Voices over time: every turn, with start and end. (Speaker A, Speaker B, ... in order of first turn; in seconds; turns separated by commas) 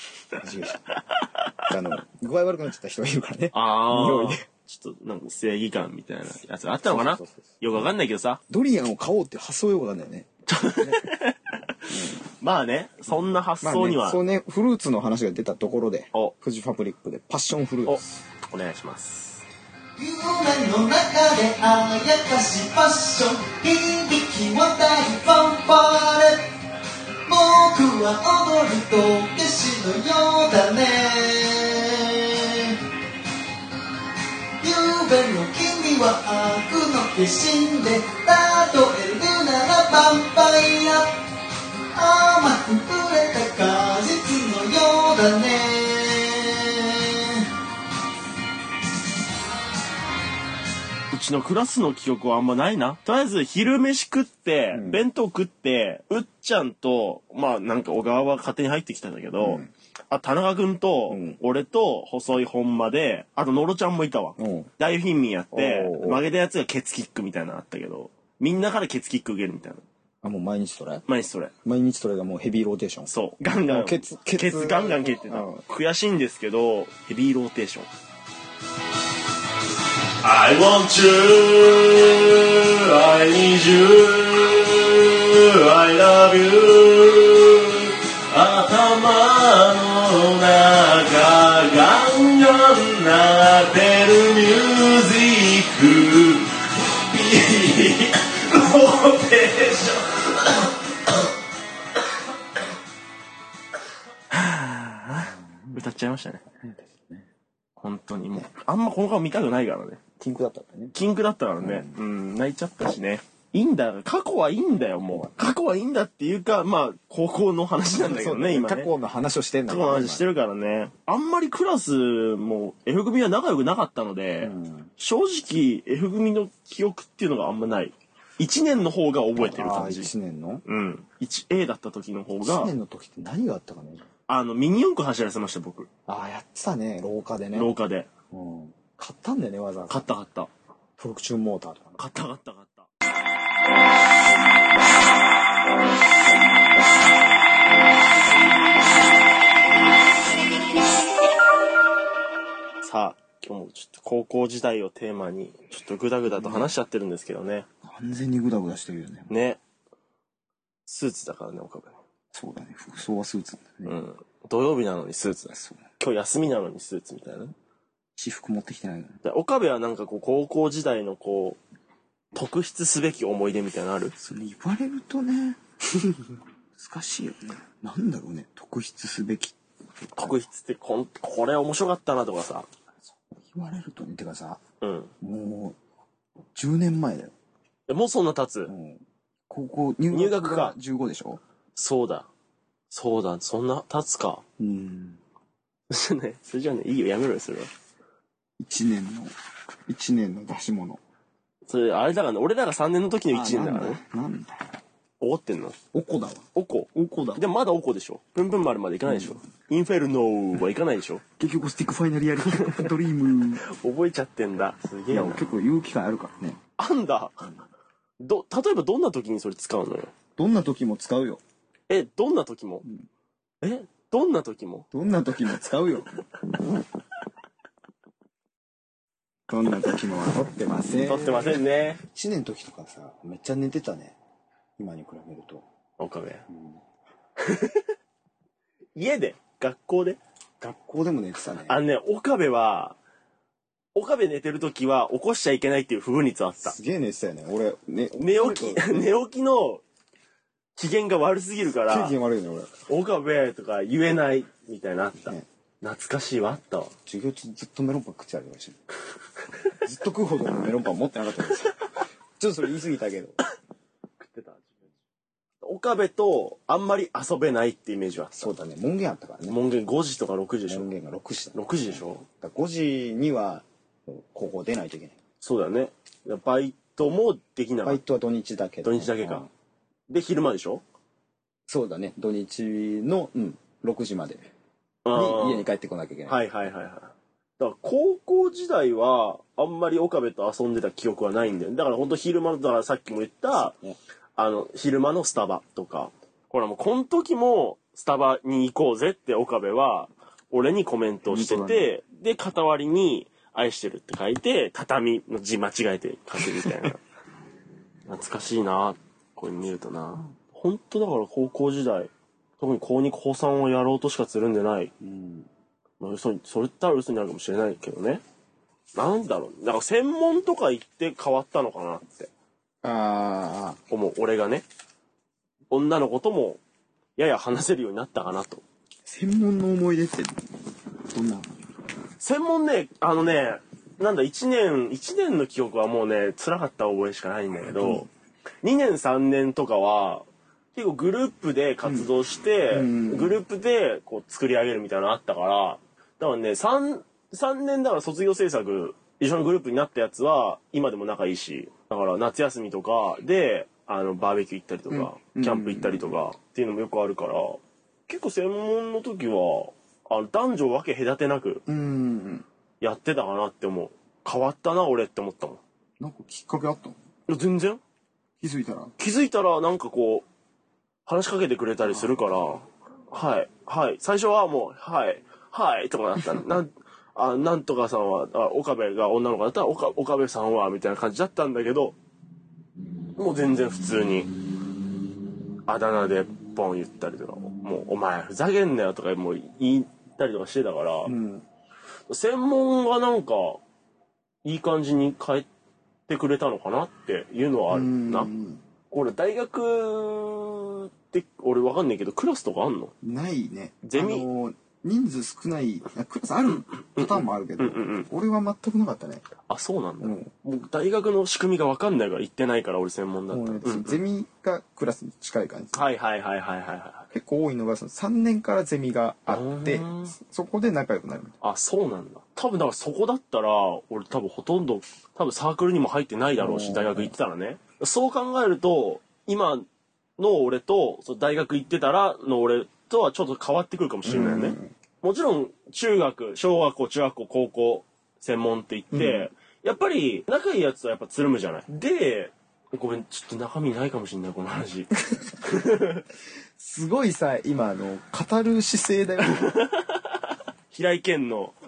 Speaker A: 0.3-0.8, Speaker B: 0.9-1.6, Speaker A: 1.6-4.4, Speaker B: 3.5-8.4, Speaker A: 6.9-7.6, Speaker A: 8.5-11.1, Speaker B: 10.5-14.2, Speaker A: 11.9-12.2, Speaker A: 13.6-18.0, Speaker B: 17.8-19.4, Speaker C: 20.0-26.5, Speaker C: 27.2-32.7, Speaker C: 34.6-41.1, Speaker C: 41.9-47.4, Speaker B: 51.1-69.8, Speaker A: 54.7-55.0, Speaker A: 59.4-59.7, Speaker A: 61.1-61.4, Speaker A: 64.4-64.7, Speaker A: 65.5-66.2, Speaker A: 70.2-71.0, Speaker B: 71.1-71.5, Speaker A: 71.6-73.1, Speaker B: 73.1-77.9, Speaker A: 73.7-75.6, Speaker B: 80.2-100.7, Speaker B: 104.3-106.4, Speaker A: 105.2-105.8, Speaker A: 106.6-107.3, Speaker B: 107.8-110.0, Speaker A: 110.2-110.9, Speaker B: 110.9-118.9, Speaker A: 111.6-112.0, Speaker A: 118.0-120.3, Speaker B: 119.7-130.1, Speaker A: 124.4-124.9, Speaker A: 129.3-130.6, Speaker B: 130.6-132.7, Speaker A: 132.4-134.1, Speaker B: 134.3-135.9, Speaker A: 136.1-137.7, Speaker B: 137.5-138.1, Speaker A: 138.3-140.1, Speaker B: 139.9-140.5, Speaker A: 141.0-142.0, Speaker B: 142.0-142.9, Speaker B: 152.8-157.7, Speaker A: 156.3-156.7, Speaker A: 157.8-159.3, Speaker B: 159.3-159.6, Speaker B: 160.8-162.0, Speaker A: 162.3-164.0, Speaker B: 163.8-167.5, Speaker A: 165.5-165.8, Speaker A: 168.2-169.2, Speaker B: 169.2-171.6, Speaker B: 172.3-174.1, Speaker A: 174.2-179.6, Speaker B: 180.2-182.7, Speaker A: 183.1-184.6, Speaker B: 184.8-185.1, Speaker A: 185.2-185.8, Speaker A: 186.5-187.3, Speaker B: 187.9-188.7, Speaker A: 188.7-191.4, Speaker B: 190.1-190.8, Speaker B: 191.7-192.3, Speaker B: 192.9-194.4, Speaker A: 194.6-195.2, Speaker B: 195.9-197.7, Speaker A: 198.6-199.3, Speaker A: 199.9-201.0, Speaker B: 201.7-204.0, Speaker A: 203.3-204.7, Speaker B: 205.2-205.8, Speaker A: 205.9-207.4, Speaker B: 206.5-211.2, Speaker A: 209.1-209.3, Speaker A: 211.4-213.6, Speaker B: 212.4-212.9, Speaker B: 213.7-215.5, Speaker A: 215.1-216.6, Speaker B: 216.8-217.5, Speaker B: 218.2-220.1, Speaker A: 220.4-221.4, Speaker B: 221.9-222.8, Speaker B: 223.6-224.9, Speaker A: 224.9-226.2, Speaker A: 229.5-234.2, Speaker B: 231.0-232.0, Speaker A: 234.8-235.6, Speaker B: 236.0-236.4, Speaker A: 236.5-236.8, Speaker B: 237.4-237.9, Speaker B: 238.9-240.2, Speaker A: 240.6-241.8, Speaker B: 241.7-243.0, Speaker B: 243.9-246.8, Speaker A: 246.6-249.1, Speaker B: 248.2-249.8, Speaker B: 250.8-252.1, Speaker A: 251.8-252.7, Speaker B: 252.9-256.9, Speaker A: 255.2-255.4, Speaker A: 257.1-258.8, Speaker A: 259.8-263.4, Speaker B: 264.2-264.8, Speaker B: 265.6-268.5, Speaker A: 268.4-269.6, Speaker B: 269.5-270.9, Speaker A: 270.7-275.2, Speaker B: 271.5-272.2, Speaker B: 275.4-278.0, Speaker A: 277.8-279.5, Speaker B: 278.8-279.4, Speaker B: 280.1-280.8, Speaker A: 281.7-284.5, Speaker B: 285.0-285.7, Speaker A: 285.1-286.4, Speaker B: 286.3-293.7, Speaker A: 293.5-294.0, Speaker B: 294.4-307.0, Speaker A: 301.3-301.9, Speaker B: 308.1-314.9, Speaker A: 315.0-315.5, Speaker B: 316.0-318.2, Speaker B: 318.9-322.3, Speaker A: 322.8-323.8, Speaker B: 323.9-324.6, Speaker B: 325.7-326.6, Speaker B: 327.1-328.6, Speaker A: 329.1-330.3, Speaker A: 331.1-331.5, Speaker B: 332.2-338.1, Speaker A: 337.6-338.1, Speaker B: 338.6-361.6, Speaker A: 341.8-342.1, Speaker A: 342.7-343.4, Speaker A: 354.9-356.1, Speaker A: 361.6-362.4, Speaker B: 362.8-365.6, Speaker A: 366.0-366.9, Speaker B: 367.3-367.8, Speaker A: 368.4-368.9, Speaker B: 369.0-370.2, Speaker B: 371.1-382.0, Speaker B: 383.1-384.3, Speaker B: 385.6-391.1, Speaker A: 391.0-391.4, Speaker B: 392.1-393.6, Speaker B: 394.4-395.5, Speaker B: 396.1-398.3, Speaker A: 397.7-398.6, Speaker B: 398.9-402.9, Speaker A: 403.0-409.3, Speaker B: 403.9-404.2, Speaker B: 406.8-408.1, Speaker B: 409.5-414.0, Speaker A: 410.0-410.3, Speaker A: 413.3-415.8, Speaker B: 415.7-417.1, Speaker A: 417.1-421.4, Speaker B: 419.3-420.2, Speaker B: 421.4-429.6, Speaker A: 426.4-427.1, Speaker B: 430.2-444.9, Speaker A: 434.1-434.7, Speaker A: 438.9-439.3, Speaker B: 445.4-446.0, Speaker A: 446.6-449.6, Speaker B: 449.2-450.2, Speaker B: 450.7-451.5